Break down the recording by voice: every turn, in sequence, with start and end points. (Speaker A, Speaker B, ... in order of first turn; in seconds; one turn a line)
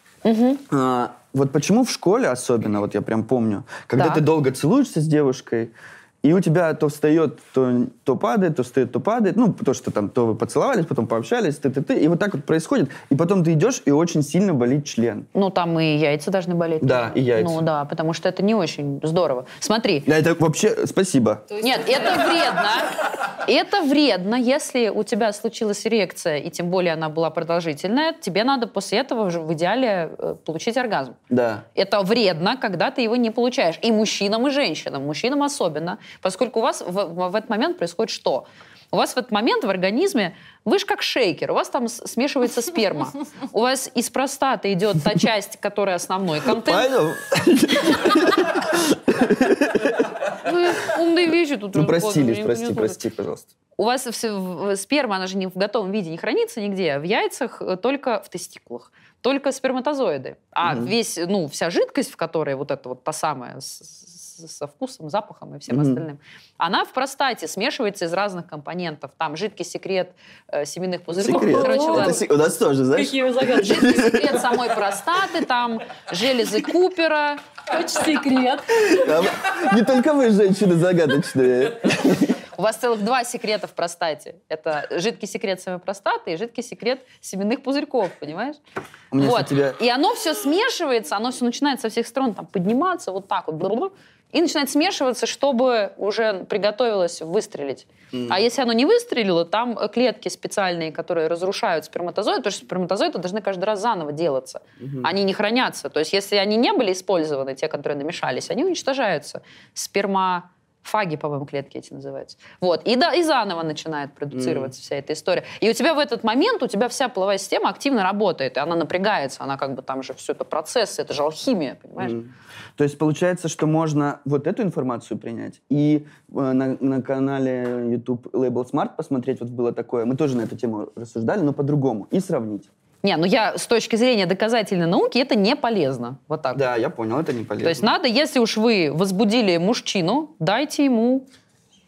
Speaker A: 0.2-0.6
Speaker B: 0.7-15.3
Speaker A: 4.0-4.2
Speaker A: 15.3-20.1
Speaker B: 16.8-17.6
Speaker B: 20.1-21.5
Speaker C: 21.5-22.5
Speaker A: 21.6-31.2
Speaker B: 31.3-31.6
Speaker A: 31.7-46.9
Speaker B: 46.5-50.2
Speaker A: 50.4-53.0
Speaker B: 51.7-53.5
Speaker A: 53.8-72.2
Speaker B: 60.6-60.9
Speaker B: 65.7-66.0
Speaker C: 71.2-72.2
Speaker B: 71.2-74.5
Speaker C: 72.9-74.1
Speaker A: 73.6-77.4
Speaker C: 77.7-79.2
Speaker B: 78.8-82.4
Speaker A: 82.5-88.6
Speaker B: 89.1-89.8
Speaker A: 89.2-122.2
Speaker B: 98.1-98.4
Speaker B: 104.8-105.1
Speaker B: 114.3-114.7
Speaker B: 122.0-132.7
Speaker A: 133.0-136.6
Speaker B: 136.5-137.9
Speaker A: 137.6-141.2